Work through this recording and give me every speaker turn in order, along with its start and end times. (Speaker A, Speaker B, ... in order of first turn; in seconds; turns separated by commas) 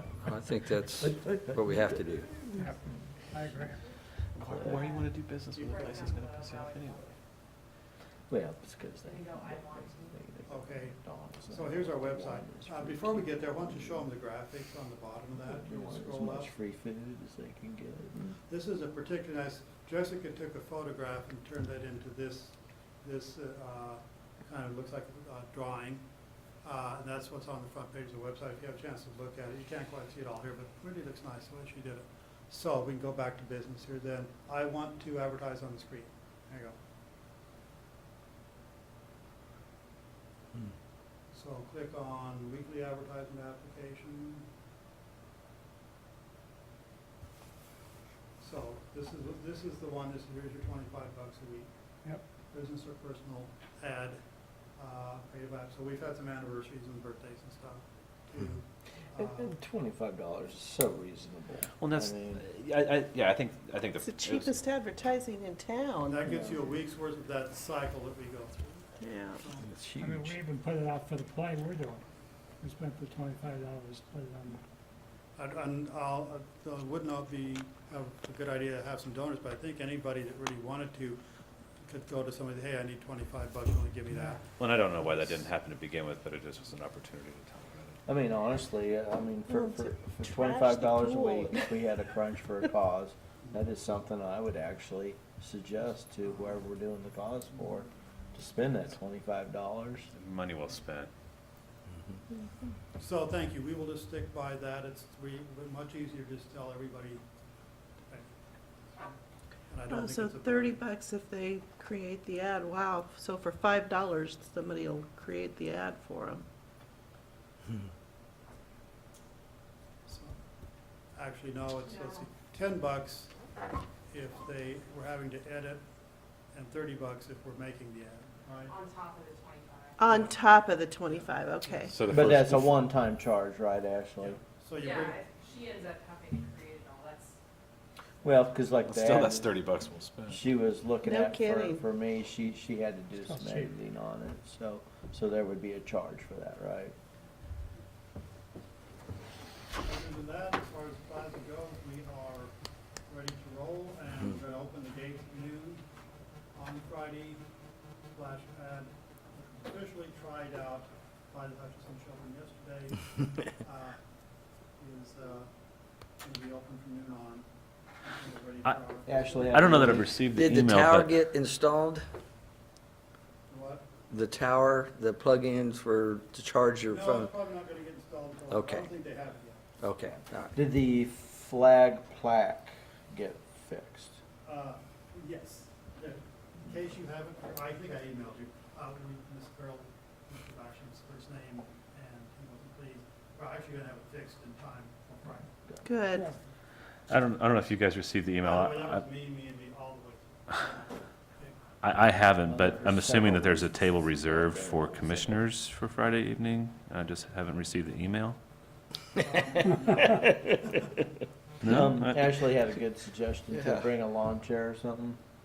Speaker A: 0.2-2.4, Speaker B: 1.0-3.0, Speaker C: 2.6-3.8, Speaker B: 4.3-4.9, Speaker D: 4.3-6.9, Speaker E: 5.7-7.1, Speaker B: 8.3-14.1, Speaker E: 9.0-10.2, Speaker F: 10.5-11.0, Speaker F: 11.5-16.6, Speaker B: 15.3-18.4, Speaker F: 18.4-26.0, Speaker F: 26.6-36.7, Speaker F: 41.3-44.5, Speaker F: 48.4-51.7, Speaker F: 52.5-59.6, Speaker B: 59.1-62.5, Speaker D: 61.8-64.6, Speaker G: 64.0-66.2, Speaker F: 66.0-69.7, Speaker B: 66.2-66.6, Speaker G: 69.0-69.4, Speaker B: 69.8-70.3, Speaker C: 70.0-72.0, Speaker C: 72.6-74.6, Speaker F: 75.3-81.2, Speaker F: 81.8-84.4, Speaker D: 84.5-88.0, Speaker F: 85.2-85.4, Speaker B: 88.0-100.1, Speaker G: 89.5-91.8, Speaker D: 100.1-101.1, Speaker F: 103.0-107.2, Speaker F: 108.0-108.3, Speaker F: 109.7-110.8, Speaker G: 109.9-116.4, Speaker F: 120.0-120.4, Speaker F: 121.1-123.4, Speaker E: 121.9-122.3, Speaker F: 124.1-125.8, Speaker F: 126.5-128.7, Speaker E: 128.7-130.0, Speaker G: 130.0-131.9, Speaker F: 131.2-131.9, Speaker D: 131.9-132.7, Speaker B: 132.1-134.4, Speaker F: 134.2-135.2, Speaker E: 134.8-137.4, Speaker B: 138.2-139.6, Speaker D: 138.8-140.4, Speaker B: 140.3-146.9, Speaker G: 141.0-141.8, Speaker C: 143.3-143.7, Speaker F: 149.8-152.5, Speaker F: 153.1-155.8, Speaker F: 156.5-157.4, Speaker F: 158.1-164.0, Speaker F: 164.8-165.6, Speaker F: 166.2-169.7, Speaker B: 169.1-170.2, Speaker D: 169.5-171.1, Speaker A: 170.1-172.0, Speaker F: 173.5-173.9, Speaker A: 174.1-177.3, Speaker F: 176.8-179.6, Speaker A: 178.5-178.9, Speaker A: 179.8-180.6, Speaker B: 180.5-184.2, Speaker F: 184.4-195.5, Speaker G: 195.8-196.3, Speaker D: 197.1-199.0, Speaker F: 198.4-201.6, Speaker D: 201.8-208.4, Speaker B: 202.4-205.4, Speaker F: 209.2-211.0, Speaker D: 211.6-212.2, Speaker B: 211.6-215.2, Speaker A: 213.5-213.9